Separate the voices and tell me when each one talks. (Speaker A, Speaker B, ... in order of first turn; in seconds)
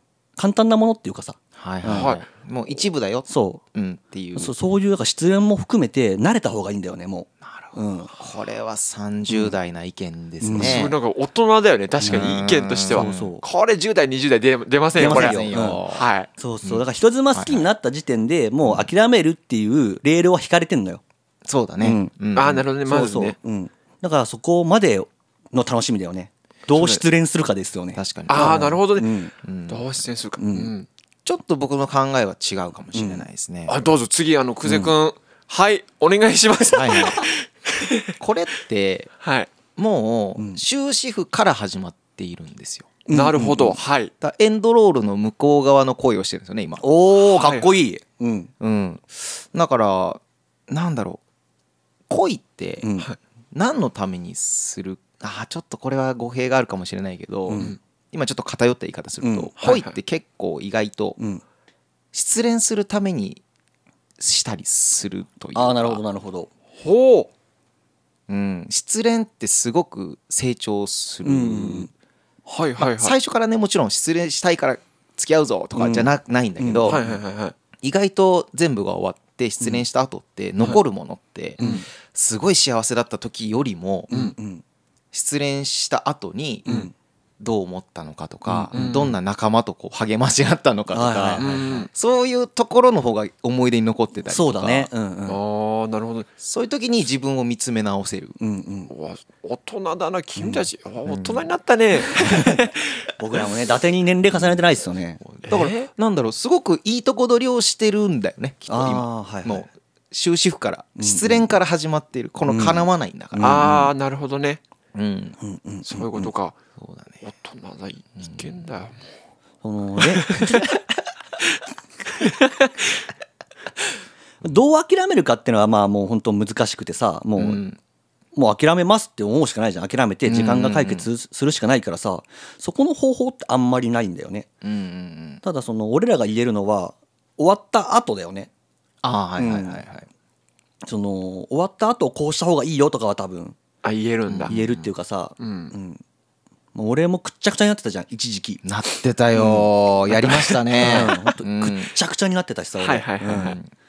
Speaker A: 0.4-2.1, 3.3-3.6, 4.3-8.1, 9.3-9.5, 10.4-10.8, 12.0-12.4, 12.9-13.4, 14.9-15.8, 16.4-21.0, 21.8-22.1, 22.8-29.3, 30.4-30.7, 32.9-33.2, 34.6-34.9, 40.4-40.6, 43.1-43.8, 46.8-48.5, 52.8-53.1, 57.5-57.7, 59.2-59.5, 61.2-61.4, 65.5-66.5, 71.2-71.9, 75.7-77.2, 81.6-81.8, 84.1-84.6, 86.7-86.9, 88.5-88.9, 90.9-91.9, 94.3-95.4, 98.4-98.9, 100.4-100.6, 102.2-102.6, 103.2-105.2, 108.7-109.7, 111.0-111.5, 112.5-113.9, 115.4-116.3, 119.6-120.6, 124.4-127.6, 128.3-134.5, 135.4-138.5, 139.4-139.8, 140.8-143.6, 144.5-146.0, 146.7-148.6, 149.3-149.7, 150.8-153.6
Speaker B: 1.6-4.5, 7.4-11.0, 12.0-13.2, 14.9-16.1, 16.6-17.7, 18.6-18.9, 21.4-22.6, 27.9-28.8, 29.4-29.8, 31.2-33.8, 36.7-37.2, 38.2-39.1, 39.8-42.9, 44.2-46.8, 48.6-51.2, 52.1-52.9, 53.5-61.2, 62.1-63.4, 64.2-66.0, 68.3-71.9, 72.8-77.0, 77.8-84.1, 85.1-86.8, 87.4-94.9, 96.4-98.4, 101.1-101.5, 105.2-113.6, 114.9-115.4, 116.8-117.2, 118.2-118.6, 127.4-127.8, 130.2-131.1, 134.6-135.4, 139.0-140.1, 144.3-144.9, 148.6-151.9, 153.3-153.7
Speaker C: 1.9-2.2, 10.5-16.3, 22.4-23.4, 26.7-27.0, 28.3-30.9, 33.7-38.1, 39.2-39.5, 43.1-44.1, 47.2-47.7, 59.6-60.0, 66.8-67.3, 72.5-73.2, 76.8-77.5, 81.6-81.8, 88.7-89.1, 91.4-91.9, 95.3-96.3, 98.9-102.8, 105.5-105.9, 113.4-114.6, 115.8-116.5, 117.2-119.0, 120.1-120.7, 122.2-122.8, 143.8-144.5, 145.4-145.7, 150.2-151.1, 152.8-153.6